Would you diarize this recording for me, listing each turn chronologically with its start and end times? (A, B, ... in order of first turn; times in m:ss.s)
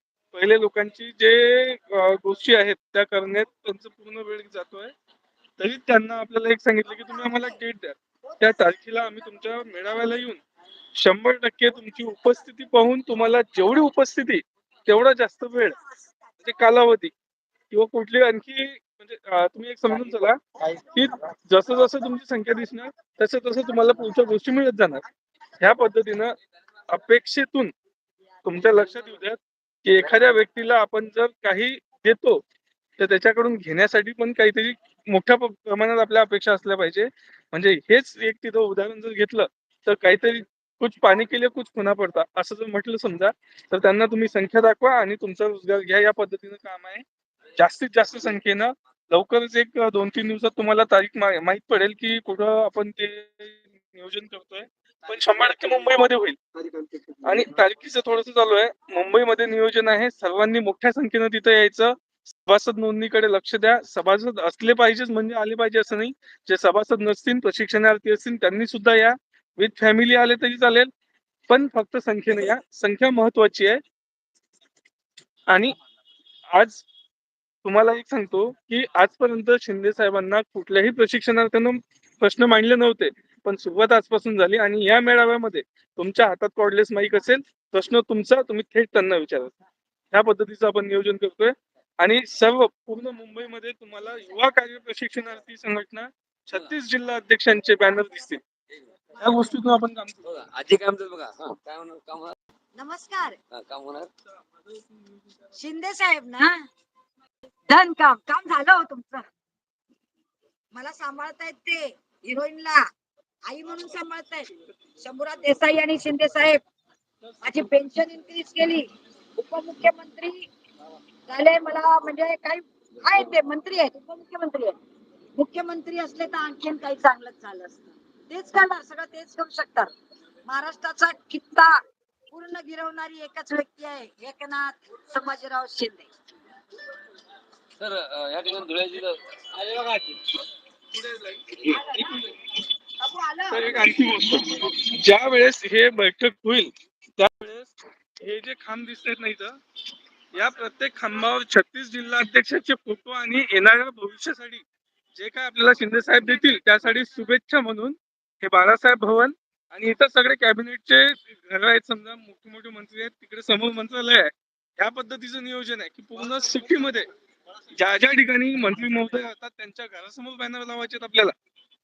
0:00.3-0:04.9 A
0:05.6-0:10.4 A
0:11.0-0:15.8 A
0:16.4-0:17.1 A
0:17.7-0:20.4 A
0:20.9-0:25.0 A
0:25.6-0:26.3 A
0:26.9-0:27.7 A
0:28.4-0:32.4 A
0:33.0-0:47.0 A
0:47.6-0:56.4 A
0:57.2-1:10.9 A
1:11.5-1:13.8 A
1:15.5-1:15.8 A
1:16.5-1:16.8 A
1:17.6-1:29.5 A
1:30.1-1:38.4 A
1:39.2-1:40.2 A
1:40.2-1:42.4 B
1:42.7-1:43.4 C
1:43.5-1:44.1 B
1:45.6-1:46.7 C
1:47.7-1:49.2 C
1:50.7-1:52.9 C
1:53.4-1:56.6 C
1:57.4-2:00.5 C
2:01.3-2:04.7 C
2:05.4-2:09.9 C
2:10.5-2:11.8 C
2:12.3-2:16.1 C
2:17.8-2:20.2 B
2:20.9-2:21.4 A
2:21.5-2:21.8 B
2:21.9-2:22.3 A
2:23.0-2:23.8 C
2:23.5-2:27.7 A
2:28.2-2:29.6 A
2:30.3-2:34.6 A
2:35.1-2:47.1 A
2:47.8-2:51.3 A